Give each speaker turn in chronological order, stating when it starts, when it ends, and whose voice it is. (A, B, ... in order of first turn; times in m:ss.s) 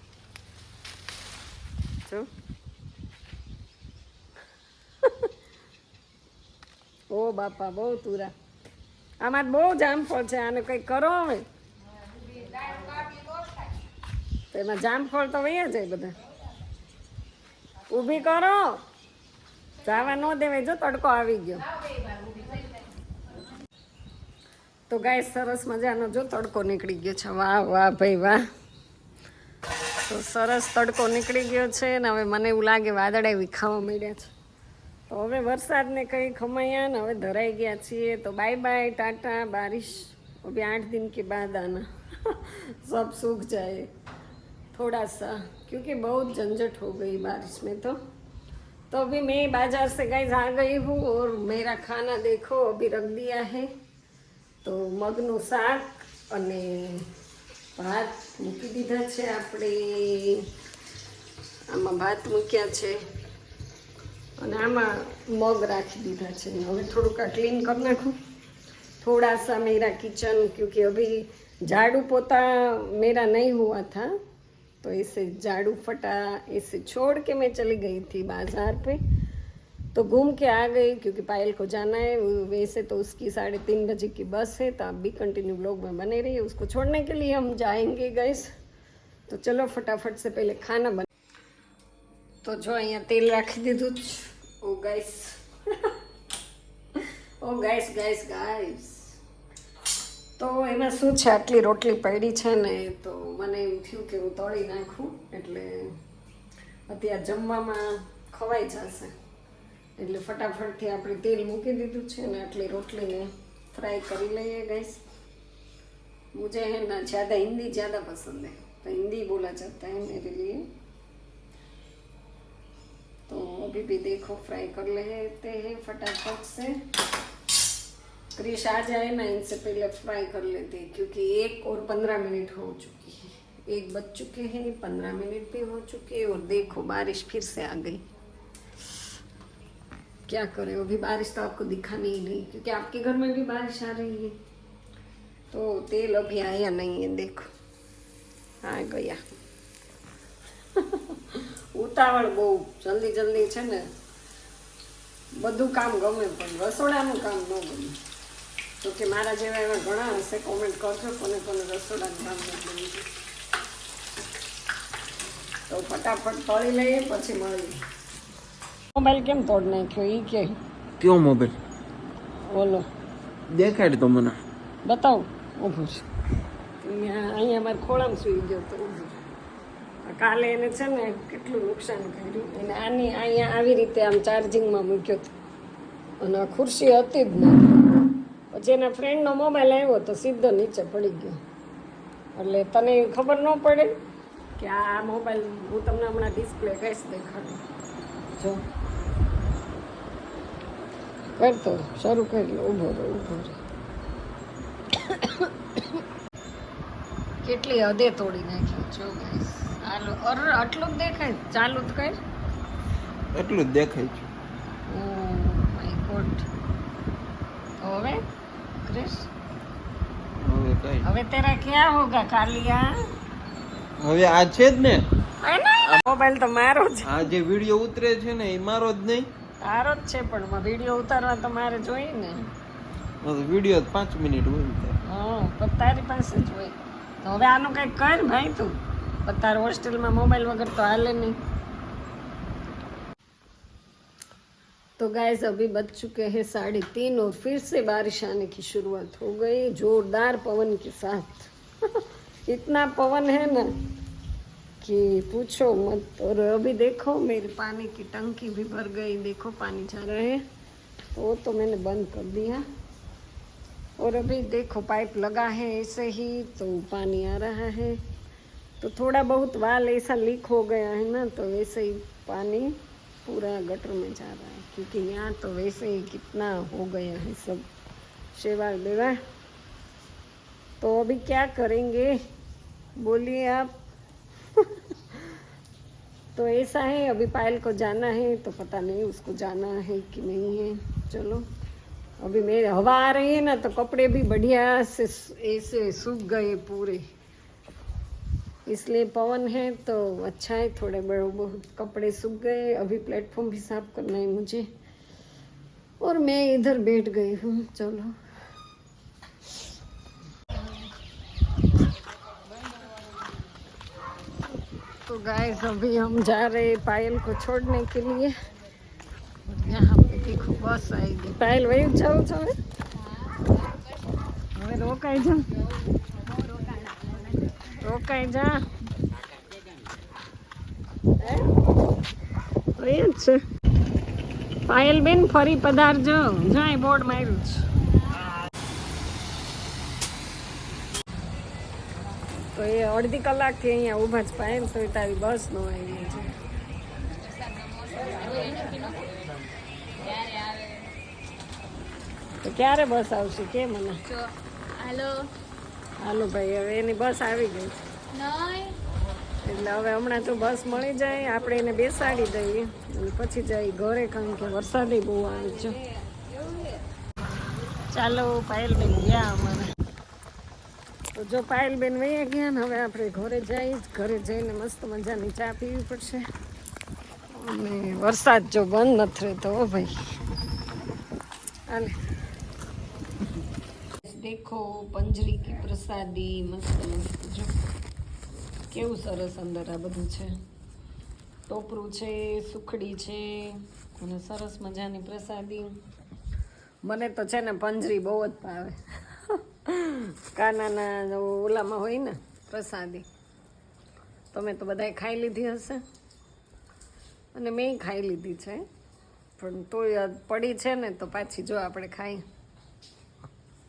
0:07.1-0:08.3 A
0:09.2-0:11.5 A
0:14.5-0:16.2 A
0:17.9-0:18.8 A
0:19.8-0:21.7 A
0:24.9-0:28.4 A
0:30.0-0:34.3 A
0:35.1-0:43.9 A
0:44.7-0:48.0 A
0:48.9-0:53.7 A
0:54.6-0:57.1 A
0:57.8-1:00.5 A
1:01.7-1:03.0 A
1:04.4-1:08.2 A
1:09.0-1:14.1 A
1:14.8-1:19.0 A
1:19.9-1:28.5 A
1:29.3-1:31.1 A
1:32.4-1:35.9 A
1:37.0-1:39.2 A
1:40.4-1:46.0 A
1:46.9-1:49.1 A
1:50.0-1:55.0 A
1:56.3-2:00.7 A
2:03.3-2:06.8 A
2:08.4-2:18.0 A
2:20.3-2:24.4 A
2:25.5-2:27.5 A
2:28.6-2:29.2 A
2:30.8-2:33.9 A
2:35.4-2:38.0 A
2:38.8-2:43.1 A
2:45.7-2:47.8 A
2:49.0-2:50.5 A
2:51.0-2:51.6 B
2:52.5-2:52.9 A
2:53.5-2:54.4 B
2:54.8-2:56.0 A
2:56.8-2:59.2 A
3:00.0-3:05.3 A
3:06.2-3:07.9 A
3:08.5-3:11.4 A
3:12.4-3:13.9 A
3:14.6-3:17.6 A
3:18.4-3:18.6 A
3:21.4-3:23.6 A
3:24.9-3:26.0 A
3:27.4-3:32.2 A
3:33.3-3:34.3 B
3:34.9-3:36.5 A
3:37.8-3:38.2 A
3:38.8-3:39.3 A
3:40.4-3:41.1 B
3:41.0-3:42.9 A
3:44.0-3:45.1 B
3:45.4-3:47.3 A
3:47.0-3:49.3 B
3:49.6-3:52.4 A
3:53.2-3:55.0 B
3:55.0-4:01.4 A
4:05.0-4:13.7 A
4:14.8-4:20.4 A
4:21.1-4:22.6 A
4:24.0-4:28.0 A
4:28.8-4:37.6 A
4:38.3-4:39.2 A
4:40.8-4:42.2 A
4:43.0-4:43.7 A
4:44.6-4:45.3 A
4:46.4-4:51.4 A
4:52.2-4:57.0 A
4:58.7-5:04.7 A
5:06.0-5:08.2 A
5:15.0-5:18.3 A
5:19.4-5:22.5 A
5:23.0-5:23.5 C
5:24.6-5:25.5 A
5:26.4-5:27.6 C
5:27.7-5:28.6 A
5:31.2-5:31.5 A
5:32.8-5:33.4 A
5:34.7-5:37.6 A
5:42.5-5:46.4 A
5:47.2-5:49.2 C
5:50.0-5:50.9 C
5:52.4-5:54.0 A
5:54.1-5:55.3 C
5:56.0-5:57.8 A
5:58.1-5:58.8 C
5:59.4-6:05.8 A
6:07.9-6:09.7 A
6:11.2-6:16.3 A
6:17.3-6:20.2 A
6:24.0-6:27.6 A
6:28.7-6:30.3 A
6:31.5-6:35.8 A
6:36.8-6:43.1 A
6:44.3-6:45.8 A
6:47.3-6:48.6 A
6:49.4-6:52.2 A